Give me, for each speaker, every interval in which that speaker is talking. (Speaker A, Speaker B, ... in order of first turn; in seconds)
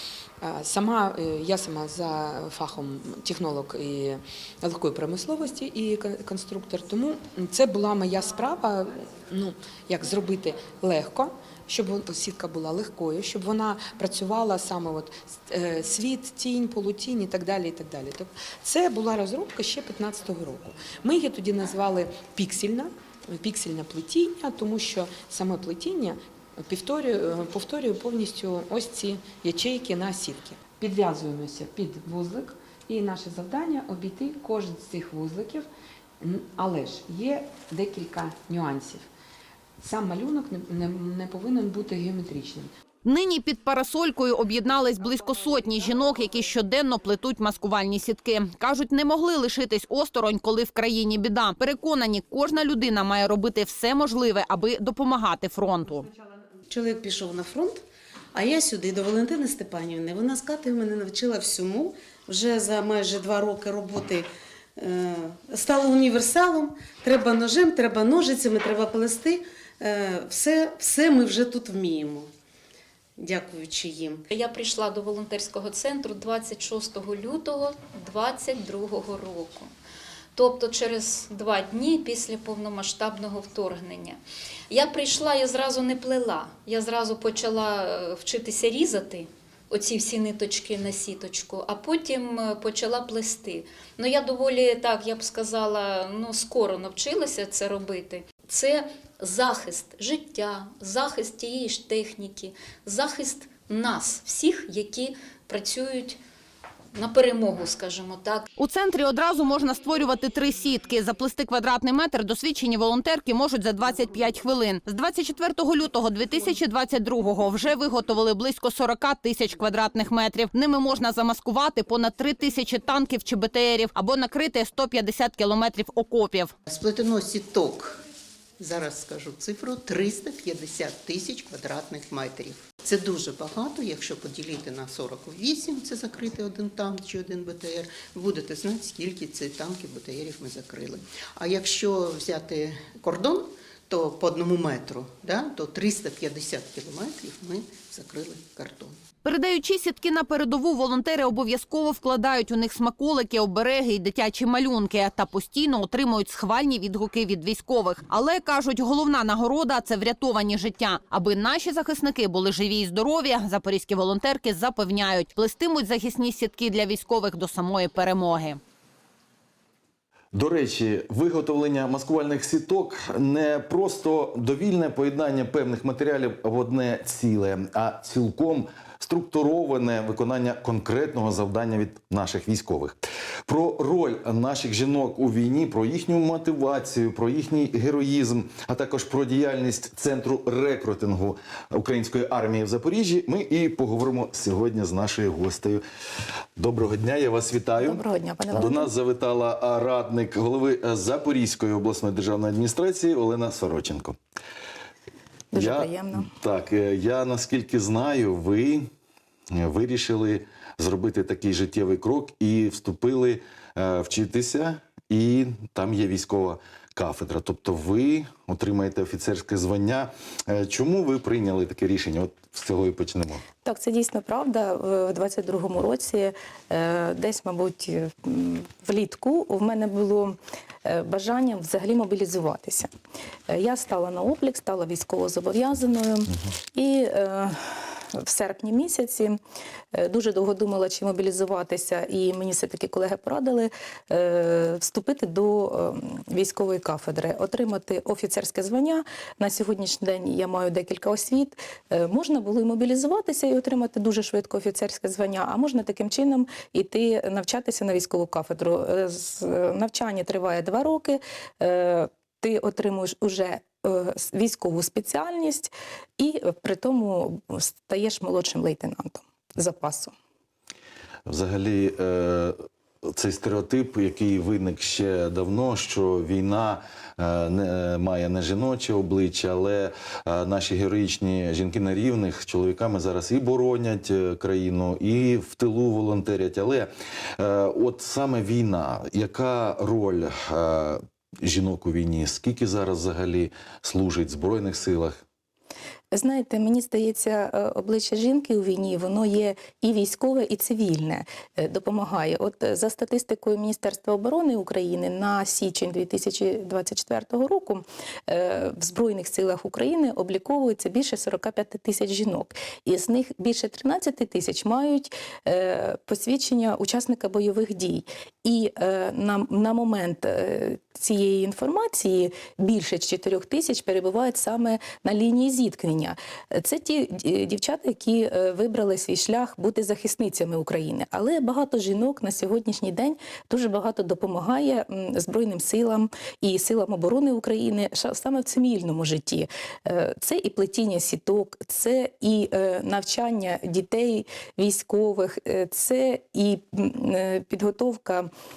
Speaker A: 0.4-35.7, 36.2-39.1, 39.8-42.7
Speaker B: 43.0-56.1, 108.6-126.5, 149.2-168.6
Speaker C: 56.7-57.8, 58.3-72.3, 73.2-74.2
Speaker D: 74.3-79.7, 80.3-106.2, 106.9-108.5
Speaker E: 126.7-128.0, 128.6-149.0
Speaker F: 170.3-195.8, 196.6-204.2, 205.5-208.9, 209.5-223.4, 271.3-295.2
Speaker G: 197.8-198.9, 205.5-206.3, 223.6-232.9, 233.5-239.4, 239.9-270.1, 296.1-348.3